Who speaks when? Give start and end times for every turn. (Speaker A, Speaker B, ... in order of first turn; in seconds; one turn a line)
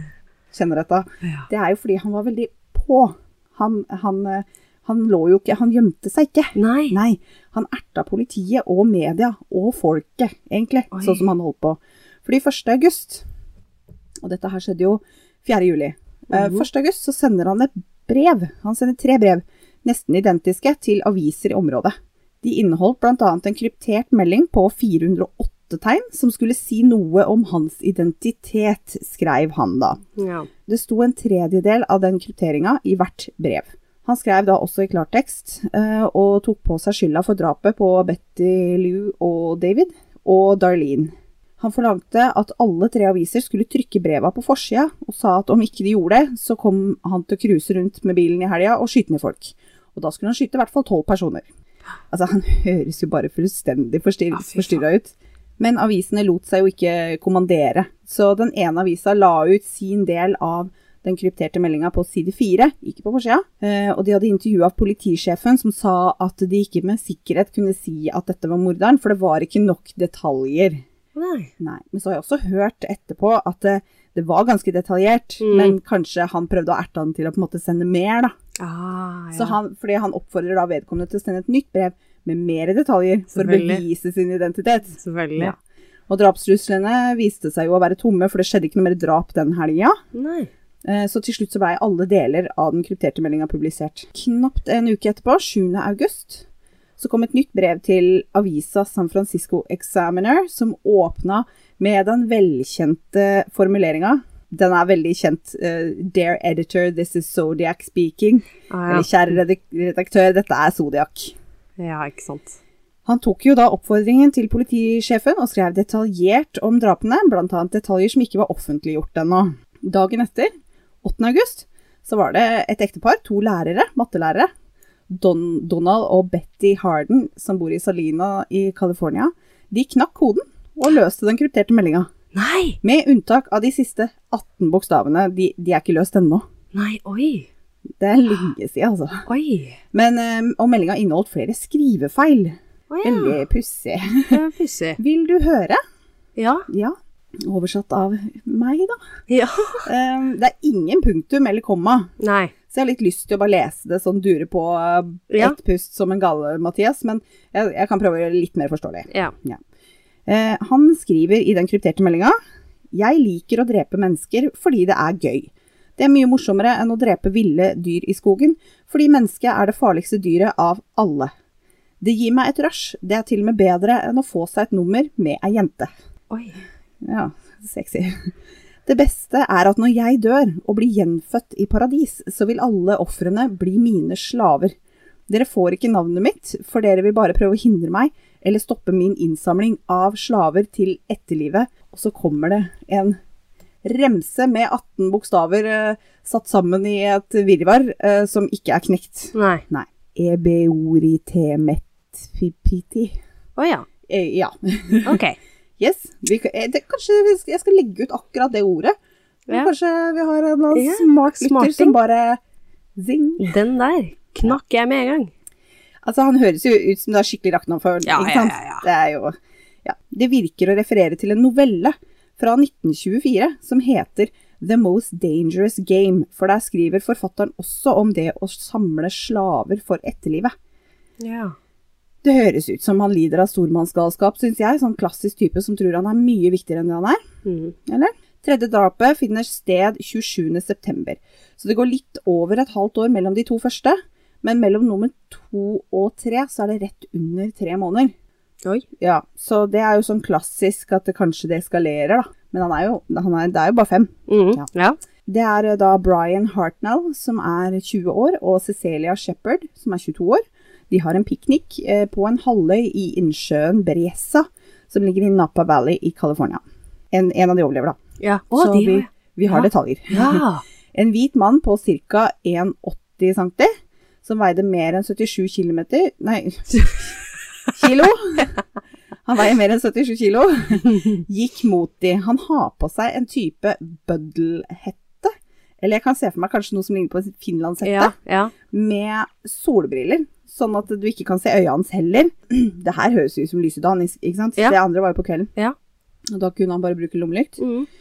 Speaker A: 0.5-13.2
Speaker B: 6.5-7.0
Speaker B: 10.9-11.2
Speaker A: 14.2-30.0
Speaker B: 16.3-16.6
Speaker B: 30.2-30.5
Speaker A: 30.7-51.5
Speaker A: 52.1-70.8
Speaker B: 54.3-54.8
Speaker B: 71.2-71.5
Speaker A: 71.6-78.3
Speaker B: 75.4-75.8
Speaker B: 78.6-79.6
Speaker A: 79.3-85.6
Speaker B: 83.3-83.8
Speaker B: 85.0-85.5
Speaker A: 86.1-90.0
Speaker B: 90.1-90.5
Speaker A: 90.8-96.5
Speaker A: 97.0-111.4
Speaker B: 108.7-109.1
Speaker B: 111.8-112.6
Speaker A: 113.1-120.5
Speaker A: 121.0-124.5
Speaker A: 125.1-132.1
Speaker B: 132.3-132.8
Speaker A: 132.8-136.4
Speaker B: 136.7-137.5
Speaker A: 138.0-139.2
Speaker B: 139.3-139.8
Speaker A: 139.9-144.4
Speaker B: 142.9-143.4
Speaker B: 144.3-145.0
Speaker A: 145.0-145.8
Speaker B: 146.4-146.7
Speaker A: 146.7-149.0
Speaker B: 149.3-149.8
Speaker A: 149.8-152.1
Speaker B: 152.2-152.5
Speaker A: 152.7-159.6
Speaker B: 155.3-155.6
Speaker A: 160.3-162.4
Speaker A: 162.9-171.3
Speaker A: 172.0-175.9
Speaker B: 176.3-176.6
Speaker A: 177.0-178.3
Speaker A: 178.9-184.7
Speaker A: 185.3-193.2
Speaker A: 193.8-203.2
Speaker B: 199.3-199.6
Speaker B: 203.6-203.9
Speaker A: 204.1-205.2
Speaker B: 205.1-205.4
Speaker A: 205.8-208.9
Speaker A: 209.5-212.4
Speaker B: 210.7-212.0
Speaker A: 213.0-213.5
Speaker B: 213.4-215.3
Speaker A: 216.0-230.5
Speaker B: 218.1-218.8
Speaker B: 231.2-231.6
Speaker A: 232.2-237.2
Speaker B: 237.4-237.8
Speaker A: 237.9-248.1
Speaker A: 249.0-254.7
Speaker B: 254.3-255.0
Speaker A: 255.3-266.6
Speaker A: 267.1-268.0
Speaker B: 268.2-270.6
Speaker A: 268.5-270.4
Speaker A: 270.9-273.7
Speaker A: 274.2-277.2
Speaker A: 277.7-278.6
Speaker A: 279.3-288.1
Speaker B: 287.8-288.5
Speaker A: 288.7-295.5
Speaker A: 296.3-297.6
Speaker B: 297.6-297.9